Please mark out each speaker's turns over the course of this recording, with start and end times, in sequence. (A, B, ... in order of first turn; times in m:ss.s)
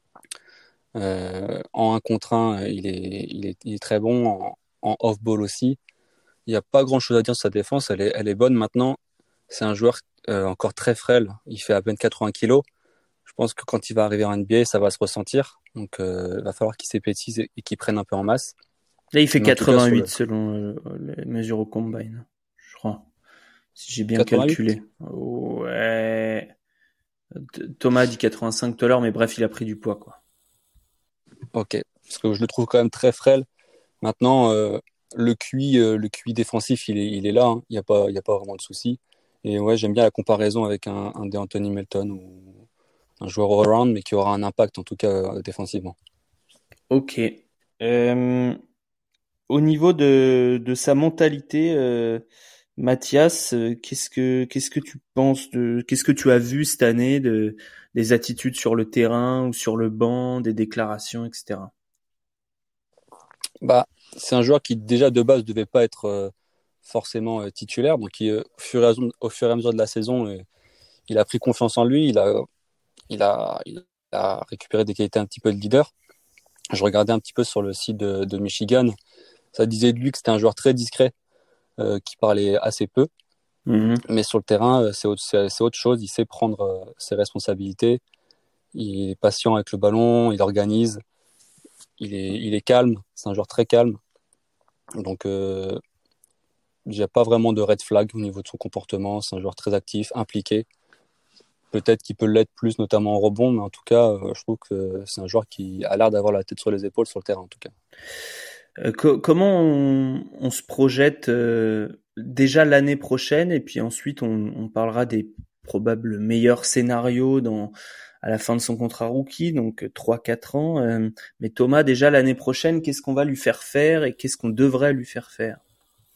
0:01.0-0:05.8 A
0:06.5-0:09.0 A
0:09.5-0:12.6 A
0:13.2-0:18.5 A
0:19.1-0:23.1 B
0:19.4-0:20.1 A
0:23.8-0:26.5 B
0:24.2-0:24.7 A
0:27.4-0:30.2 B
0:31.5-0:33.4 A
0:34.0-0:42.6 A
0:43.2-0:46.0 A
0:46.9-0:48.6 B
0:49.5-0:52.2 B
0:52.8-1:01.7 B
1:03.6-1:06.3 A
1:06.8-1:10.4 A
1:11.1-1:12.4 A
1:13.1-1:15.9 A
1:16.7-1:18.9 A
1:19.5-1:21.1 A
1:21.8-1:23.1 A
1:23.7-1:24.0 B
1:24.1-1:28.0 A
1:28.7-1:31.0 A
1:32.0-1:34.0 A
1:35.0-1:35.8 A
1:36.9-1:40.6 A
1:41.7-1:47.7 A
1:48.8-2:05.6 B